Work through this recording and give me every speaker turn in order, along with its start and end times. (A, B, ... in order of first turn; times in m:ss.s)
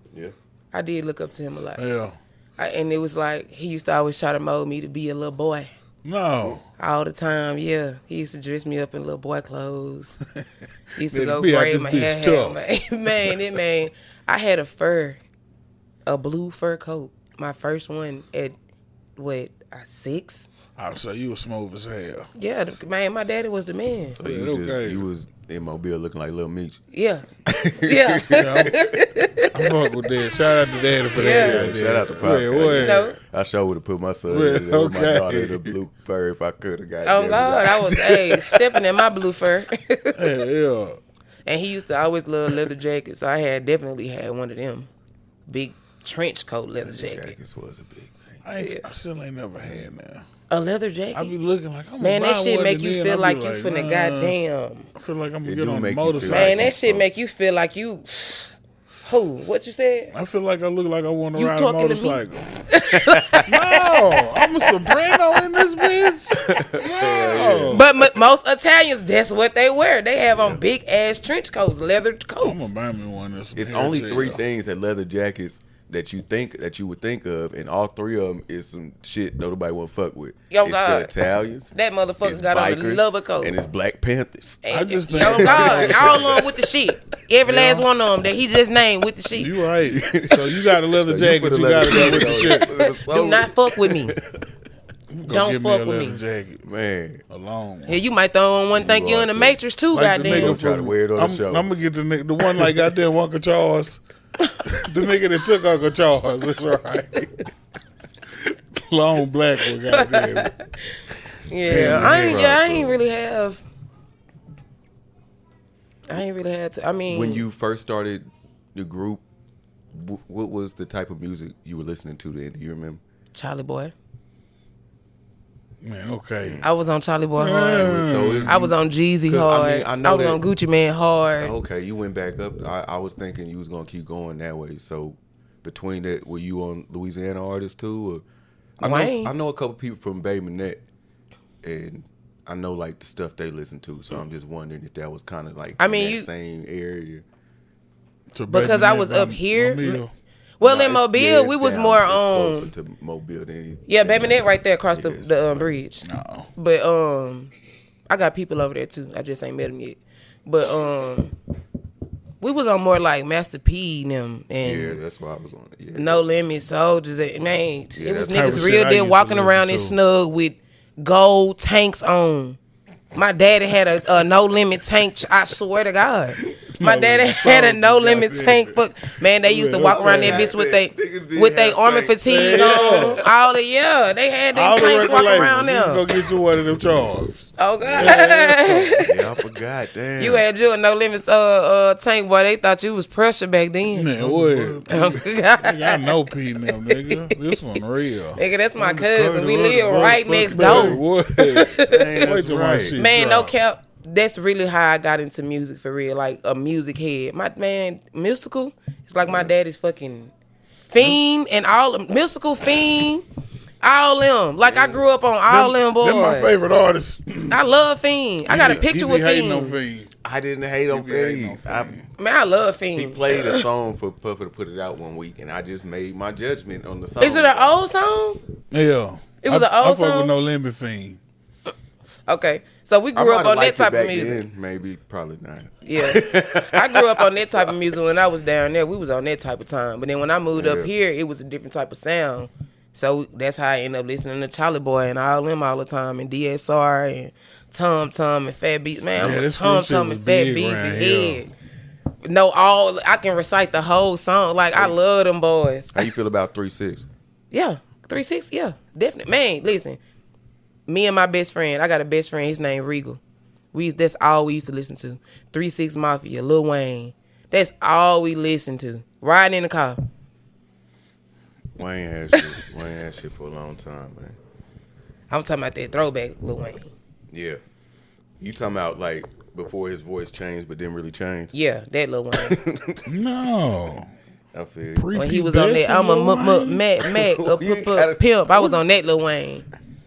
0:00.7-0:01.8 A
0:01.8-0:02.2 B
0:02.6-0:05.7 A
0:06.0-0:06.6 B
0:06.8-0:10.2 A
0:11.0-0:15.2 A
0:11.1-0:13.6 B
0:16.1-0:18.6 A
0:19.2-0:20.5 A
0:20.8-0:22.3 B
0:22.4-0:24.2 A
0:24.2-0:26.8 C
0:24.2-0:25.1 B
0:26.9-0:27.3 A
0:27.5-0:29.2 C
0:27.8-0:29.6 A
0:28.3-0:28.8 B
0:29.5-0:33.1 B
0:31.2-0:31.8 A
0:31.2-0:38.8 C
0:32.6-0:33.2 A
0:34.3-0:35.8 B
0:37.0-0:40.4 A
0:40.2-0:41.0 B
0:41.5-0:44.9 A
0:45.5-0:47.4 A
0:46.8-0:48.4 C
0:48.4-0:50.2 B
0:50.5-0:51.3 A
0:51.1-0:54.4 B
0:52.0-0:54.9 A
0:55.0-0:56.7 B
0:55.4-0:57.1 C
0:56.2-1:00.1 A
1:00.1-1:02.7 B
1:01.4-1:06.0 A
1:02.9-1:03.6 C
1:03.5-1:07.9 B
1:06.4-1:08.2 C
1:07.7-1:12.7 A
1:10.4-1:10.6 C
1:12.4-1:14.4 B
1:13.6-1:26.7 C
1:20.5-1:21.1 A
1:21.7-1:23.6 A
1:24.6-1:29.6 A
1:24.7-1:26.4 B
1:27.5-1:27.9 B
1:29.3-1:32.9 B
1:29.8-1:34.4 C
1:31.9-1:34.2 A
1:35.1-1:36.6 B
1:35.3-1:36.2 A
1:36.6-1:37.2 C
1:37.3-1:38.0 B
1:37.9-1:40.6 A
1:38.7-1:39.6 C
1:39.9-1:44.0 B
1:40.2-1:41.7 C
1:44.6-1:47.5 B
1:48.5-1:50.5 B
1:49.8-1:53.6 A
1:51.6-1:53.0 C
1:51.6-1:52.4 B
1:56.1-1:57.5 A
1:57.1-1:59.2 C
1:59.9-2:03.0 C
2:03.3-2:03.9 A
2:05.8-2:06.6 B
2:06.4-2:06.7 C
2:06.6-2:11.5 A
2:07.4-2:08.6 B
2:07.8-2:08.7 C
2:09.3-2:10.4 C
2:11.4-2:18.2 C
2:18.8-2:19.3 A
2:18.8-2:20.8 C
2:21.6-2:27.2 C
2:25.8-2:26.3 A
2:28.3-2:30.1 B
2:28.5-2:30.0 A
2:30.6-2:32.7 A
2:30.6-2:35.6 C
2:33.9-2:37.5 A
2:36.0-2:36.5 B
2:38.1-2:41.3 A
2:42.4-2:45.0 A
2:44.6-2:46.3 C
2:46.0-2:52.6 A
2:48.0-2:48.8 C
2:48.3-2:50.0 B
2:53.1-3:06.1 A
2:56.7-2:58.8 B
2:59.4-3:00.5 B
2:59.8-3:03.2 C
3:02.2-3:03.2 B
3:04.5-3:09.0 B
3:07.6-3:09.3 A
3:07.8-3:08.2 C
3:09.0-3:10.4 C
3:10.2-3:14.1 A
3:13.9-3:23.6 B
3:14.2-3:14.9 C
3:14.9-3:17.8 A
3:18.4-3:22.3 A
3:20.5-3:21.0 C
3:21.8-3:23.0 C
3:23.0-3:30.3 A
3:29.2-3:29.5 C
3:30.9-3:33.2 A
3:33.8-3:36.6 A
3:34.6-3:35.0 C
3:35.5-3:37.6 B
3:37.5-3:39.8 A
3:38.5-3:40.1 B
3:38.5-3:38.8 C
3:40.2-3:42.0 C
3:40.9-3:42.0 B
3:42.2-3:43.7 A
3:43.0-3:47.8 C
3:47.2-3:48.4 A
3:48.7-3:51.2 B
3:49.4-3:50.3 A
3:52.3-3:54.4 A
3:53.2-3:57.8 C
3:55.8-4:11.5 A
4:00.5-4:00.9 C
4:09.2-4:11.4 B
4:12.2-4:16.0 A
4:15.9-4:17.1 C
4:17.5-4:20.0 A
4:20.9-4:23.2 A
4:23.7-4:30.0 A
4:31.8-4:34.4 C
4:35.3-4:36.9 A
4:37.3-4:37.6 C
4:38.4-4:41.5 C
4:41.5-4:42.6 A
4:42.4-4:43.0 C
4:43.1-4:44.1 B
4:44.5-4:45.1 C
4:45.0-4:46.9 B
4:45.2-4:49.7 A
4:47.0-4:48.9 C